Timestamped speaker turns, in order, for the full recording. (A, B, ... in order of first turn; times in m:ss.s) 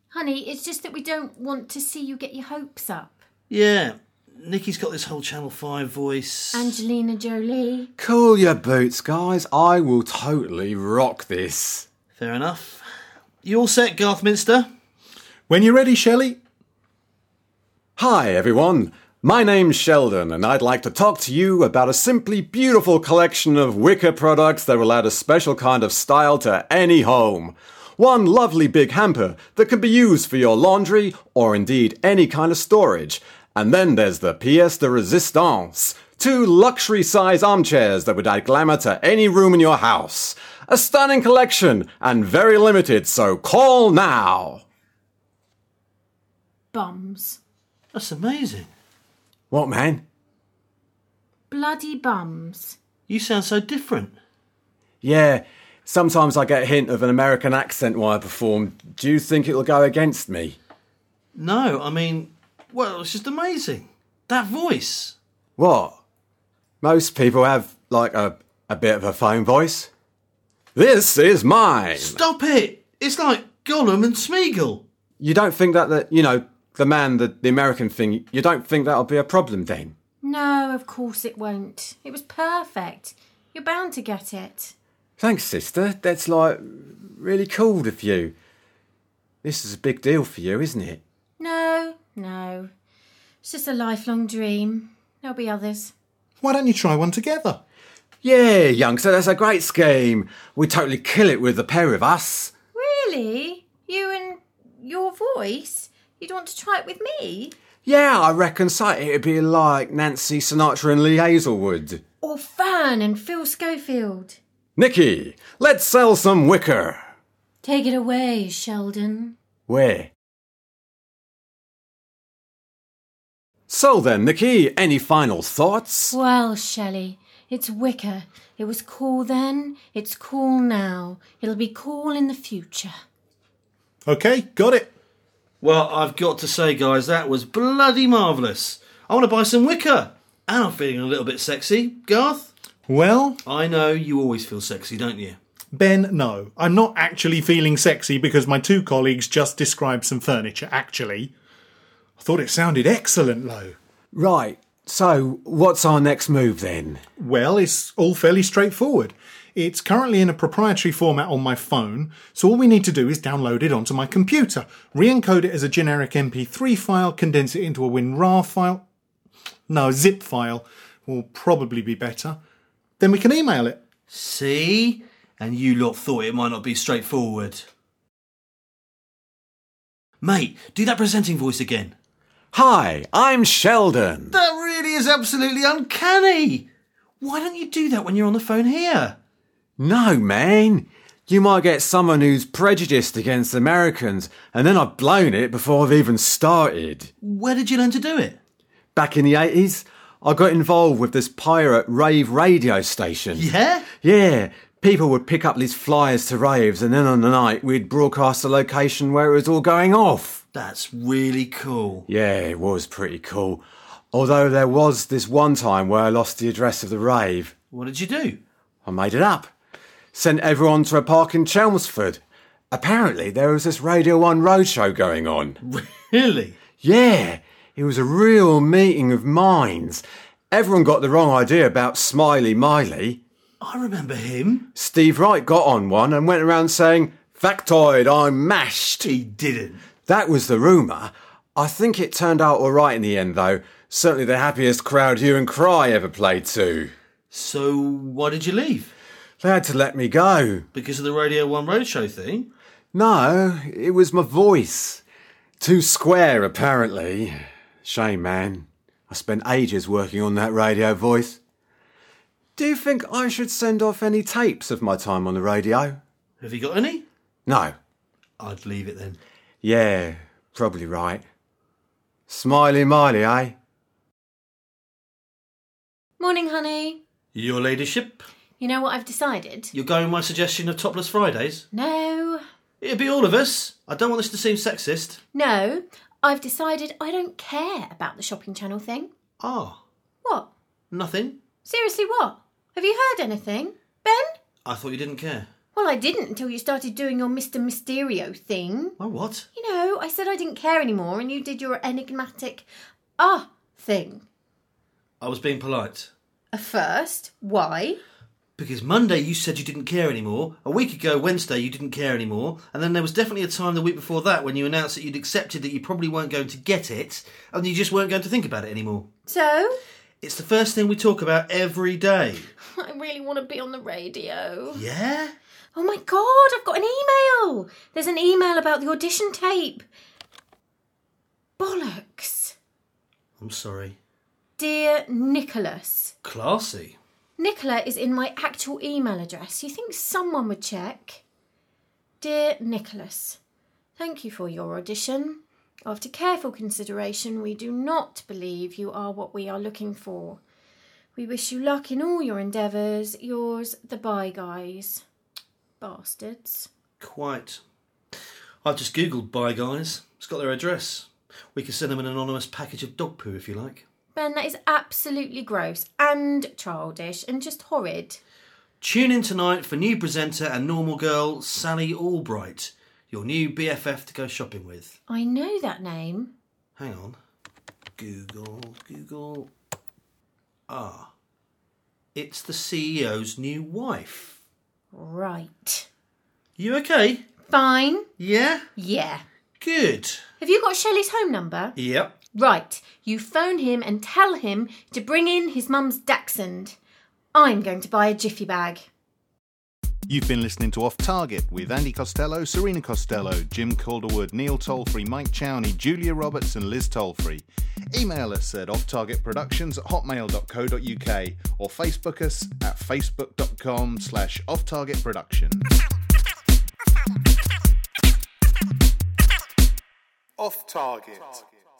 0:00.1-0:03.2 A
0:03.5-0:06.8 B
0:06.5-0:07.9 A
0:08.0-0:11.8 C
0:12.2-0:12.9 B
0:13.4-0:14.7 B
0:15.5-0:16.4 D
0:18.0-0:44.6 C
0:46.7-0:47.4 A
0:47.9-0:48.7 B
0:49.5-0:50.0 C
0:51.5-0:52.8 A
0:53.1-0:54.1 B
0:55.0-1:00.6 C
1:01.3-1:05.2 B
1:05.6-1:06.0 C
1:06.8-1:09.9 C
1:10.7-1:12.2 C
1:12.0-1:14.8 B
1:15.2-1:19.9 C
1:20.2-1:24.7 A
1:25.2-1:28.3 C
1:29.4-1:31.0 C
1:31.4-1:32.7 A
1:33.4-1:35.9 A
1:36.4-1:37.6 D
1:38.2-1:42.5 C
1:42.7-1:47.5 A
1:47.8-1:52.0 C
1:52.2-1:54.4 A
1:54.8-1:57.0 C
1:57.6-1:59.4 A
1:59.7-2:00.1 C
2:03.7-2:06.1 C
2:06.1-2:12.9 A
2:14.0-2:14.9 D
2:15.6-2:22.5 B
2:22.9-2:23.4 D
2:23.4-2:25.4 B
2:25.7-2:31.3 D
2:32.2-2:33.8 D
2:34.1-2:37.0 C
2:37.2-2:48.8 D
2:49.7-2:52.4 D
2:53.0-2:53.8 D
2:54.1-2:57.7 B
3:00.2-3:01.9 B
3:02.5-3:04.4 C
3:04.3-3:06.7 B
3:07.2-3:09.2 B
3:09.8-3:17.1 C
3:17.2-3:18.4 B
3:18.9-3:23.5 C
3:23.3-3:23.9 B
3:24.0-3:30.4 C
3:30.5-3:32.1 B
3:32.1-3:37.5 C
3:37.7-3:38.4 B
3:38.8-3:39.5 C
3:40.1-3:45.6 C
3:45.6-3:46.6 B
3:46.8-3:53.2 C
3:53.6-3:54.7 B
3:54.7-3:59.1 C
3:59.0-3:59.8 B
4:00.1-4:06.9 C
4:07.3-4:08.9 B
4:09.4-4:10.6 C
4:10.7-4:12.5 B
4:12.9-4:15.0 C
4:15.6-4:21.4 C
4:22.6-4:26.0 C
4:26.4-4:27.0 B
4:27.4-4:27.8 C
4:28.4-4:29.2 B
4:29.6-4:31.2 C
4:32.3-4:33.5 C
4:36.2-4:37.0 A
4:37.3-4:38.3 B
4:38.6-4:39.7 A
4:39.7-4:41.7 B
4:41.7-4:42.4 A
4:42.8-4:45.2 B
4:45.3-4:49.1 A
4:49.4-4:49.8 B
4:50.2-4:50.5 A
4:50.9-4:51.4 B
4:51.6-4:54.4 A
4:54.6-4:55.5 B
4:55.7-4:59.0 A
4:59.0-4:59.5 B
4:59.5-5:02.7 A
5:03.2-5:04.2 A
5:05.2-5:06.1 B
5:06.5-5:08.0 A
5:08.6-5:19.1 B
5:19.3-5:19.8 A
5:20.2-5:22.5 B
5:22.6-5:24.8 A
5:24.7-5:25.3 B
5:25.7-5:29.8 A
5:31.6-5:32.5 A
5:33.4-5:34.0 B
5:34.6-5:36.1 A
5:36.2-5:37.0 B
5:37.4-5:41.2 A
5:42.2-5:43.4 A
5:44.0-5:50.4 A
5:51.2-5:55.0 A
5:55.8-5:56.7 A
5:57.0-5:57.6 B
5:58.6-6:03.8 B
6:04.1-6:08.2 A
6:08.8-6:14.9 B
6:15.1-6:16.3 A
6:16.8-6:17.2 B
6:18.0-6:19.5 B
6:20.7-6:21.1 B
6:22.1-6:24.4 B
6:24.9-6:25.9 A
6:26.6-6:27.2 B
6:27.4-6:28.0 A
6:28.2-6:28.7 B
6:28.8-6:29.2 A
6:29.6-6:30.2 B
6:30.4-6:31.7 A
6:31.8-6:32.1 B
6:32.3-6:36.8 A
6:37.3-6:38.9 A
6:40.1-6:55.7 D
7:00.4-7:01.5 D